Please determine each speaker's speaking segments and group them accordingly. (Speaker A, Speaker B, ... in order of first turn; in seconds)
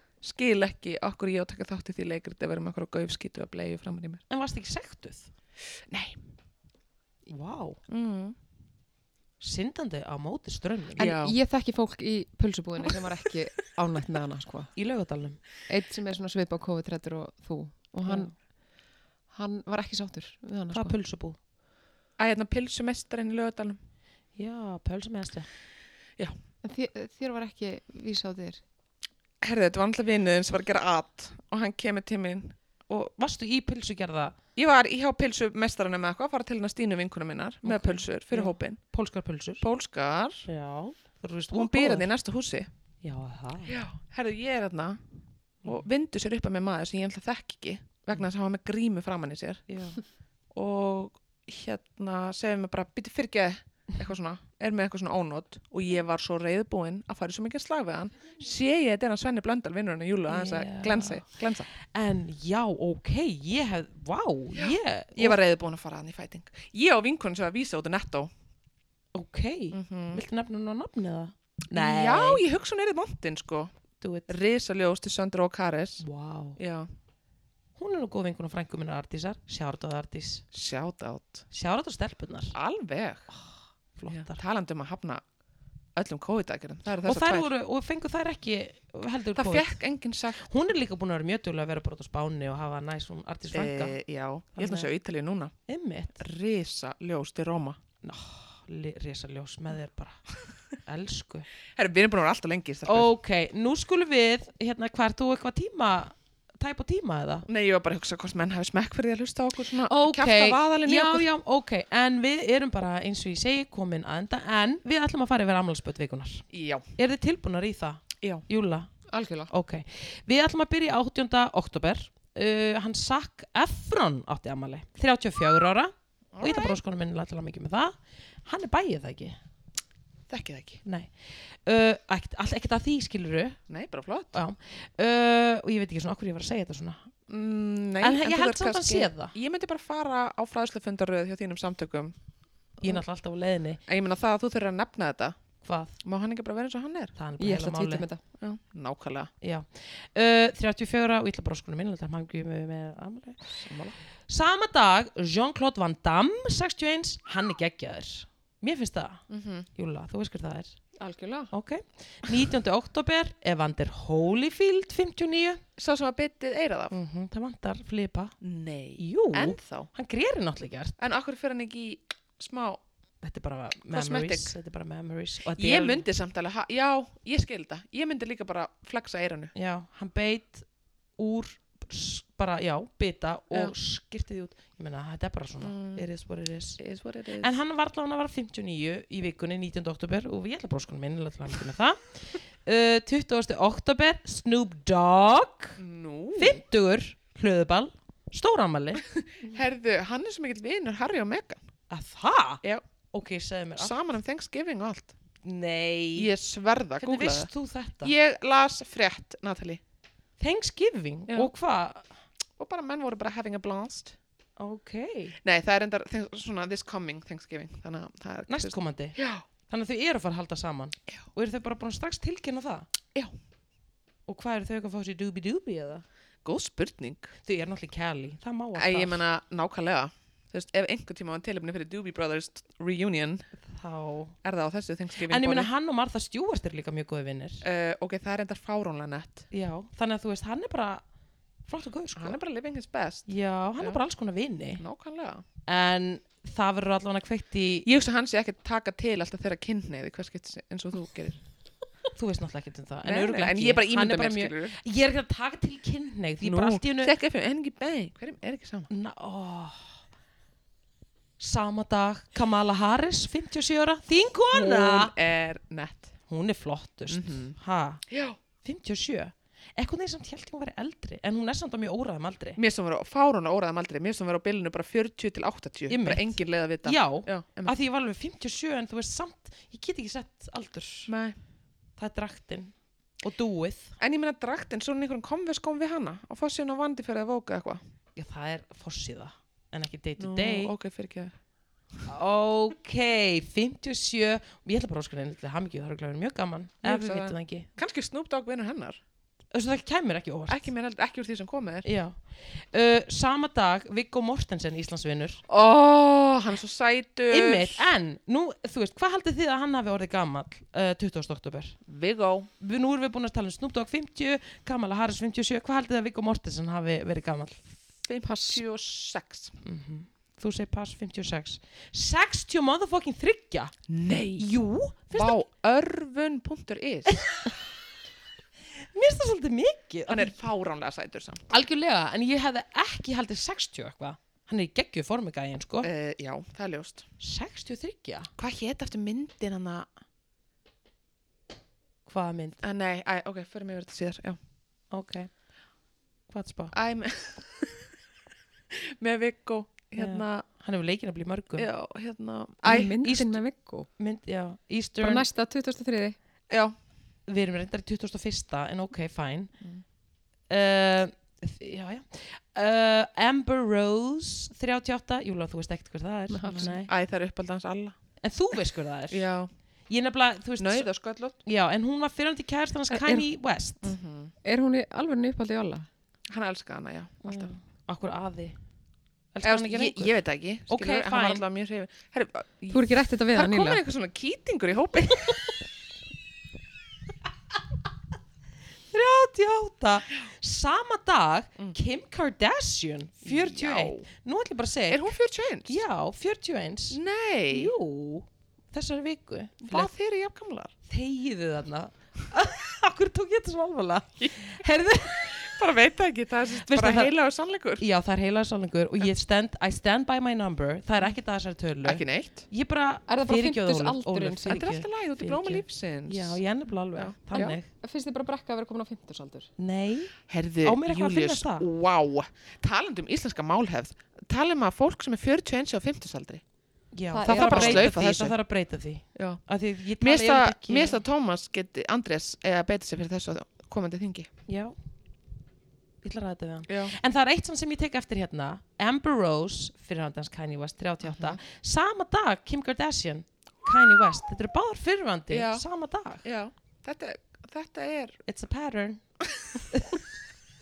Speaker A: 0.2-4.2, 5.9-6.2, 7.9-8.4, 11.0-11.3, 22.2-23.8, 29.4-33.1, 34.6-38.8, 39.6-40.5, 41.5-42.7, 43.7-45.0, 45.6-49.7, 50.5-61.7, 64.6-68.3, 69.7-70.2, 71.7-73.7, 74.3-76.1, 76.6-76.9, 80.5-81.5, 82.5-83.3, 84.1-85.2, 86.0-87.5, 89.4-90.5, 93.5-95.5, 96.2-97.8, 101.8-103.1, 107.5-111.3, 116.5-116.9, 126.3-126.8, 130.3-130.8, 133.7-134.4, 137.3-142.1, 143.9-145.4, 146.0-147.1, 148.4-149.3, 153.6-154.0, 159.3-159.7, 165.8-167.0, 168.4-169.9, 171.0-172.8, 173.9-174.5, 175.6-179.5, 185.6-186.1, 186.8-187.5, 195.8-196.6, 199.1-201.6, 203.8-205.1, 206.2-207.5, 208.0-209.8, 212.6-214.2, 215.4-219.4, 226.4-227.3, 228.8-233.5, 234.4-235.7, 237.6-239.5, 242.2-244.0, 244.8-245.4, 247.8-251.4, 253.0-254.8, 256.4-258.9, 264.5-266.1, 267.1-267.6, 268.1-268.4, 272.6-277.8, 281.1-281.4, 284.0-287.8, 290.2-291.4, 296.8-299.0, 300.5-301.9, 305.5-307.9, 311.9-312.5, 318.1-319.6, 323.9-324.5, 325.1-327.2, 330.1-331.5, 335.8-337.1, 338.4-339.9, 342.6-344.4, 346.7-347.9, 348.7-350.4, 351.6-353.1, 356.5-356.8, 366.5-368.0, 369.1-369.5, 370.6-371.4, 373.8-374.3, 376.3-377.5, 379.4-385.4, 393.2-394.1, 394.9-395.8, 396.9-397.7, 399.6-400.7, 404.2-404.5, 405.1-407.9, 411.8-412.5, 414.5-416.4, 416.9-417.6, 420.3-426.4, 427.2-428.4, 429.2-429.4, 430.0-434.3, 436.7-436.9, 441.0-441.4, 445.3-445.6, 446.2-448.2
Speaker B: 4.3-5.3, 7.3-7.8, 9.4-11.1, 14.8-15.4, 20.7-21.4, 24.4-25.5, 32.9-34.4, 37.6-39.6, 40.5-42.1, 43.0-43.8, 49.7-50.0, 60.3-65.4, 69.1-72.4, 74.0-74.3, 76.0-76.6, 77.8-80.4, 81.5-82.5, 83.3-84.4, 87.0-89.8, 90.4-94.0, 94.6-94.9, 95.7-96.2, 98.0-100.3, 100.8-101.5, 102.9-107.5, 109.9-116.4, 117.0-118.9, 119.5-129.4, 130.8-133.6, 134.3-137.1, 138.0-139.3, 142.8-143.8, 145.6-146.0, 147.2-148.1, 149.4-153.6, 154.3-159.2, 159.8-160.8, 161.5-165.6, 166.9-168.3, 169.0-170.9, 173.2-176.1, 179.6-180.7, 181.2-186.8, 187.4-195.8, 196.4-199.0, 201.9-202.6, 203.1-204.0, 205.4-206.3, 207.0-208.1, 210.4-212.1, 214.6-215.3, 218.5-219.2, 219.7-222.9, 224.3-226.1, 227.4-229.2, 233.6-234.3, 235.3-237.7, 239.5-241.0, 241.7-242.4, 243.3-244.8, 245.7-247.9, 252.2-257.1, 258.9-260.0, 261.4-265.1, 266.3-268.0, 268.6-272.6, 275.9-281.1, 282.0-284.0, 288.1-290.7, 292.1-297.7, 299.5-300.7, 301.8-305.4, 307.3-311.8, 312.6-317.6, 319.6-323.7, 324.4-325.4, 327.1-327.5, 328.8-330.4, 331.5-335.9, 337.2-338.3, 342.1-342.6, 344.9-345.3, 346.3-346.7, 350.0-351.7, 352.7-353.4, 354.0-355.3, 357.3-359.5, 360.5-366.9, 368.2-369.3, 369.9-370.9, 371.4-374.0, 377.3-378.6, 379.3-380.2, 380.7-381.4, 388.9-395.1, 395.7-399.9, 400.9-405.5, 406.6-407.1, 407.8-417.7, 419.6-421.7, 426.9-431.0, 434.5-434.8, 436.0-446.2, 448.3-449.0, 449.7-450.0
Speaker C: 11.0-14.7, 15.7-18.3, 19.3-20.9, 26.6-28.6, 119.1-119.5, 147.4-148.2, 161.0-161.5, 352.6-353.9, 355.0-356.2, 366.3-366.7, 372.9-373.2, 374.4-375.9, 382.7-383.8, 413.1-414.7, 417.4-419.5, 427.1-427.9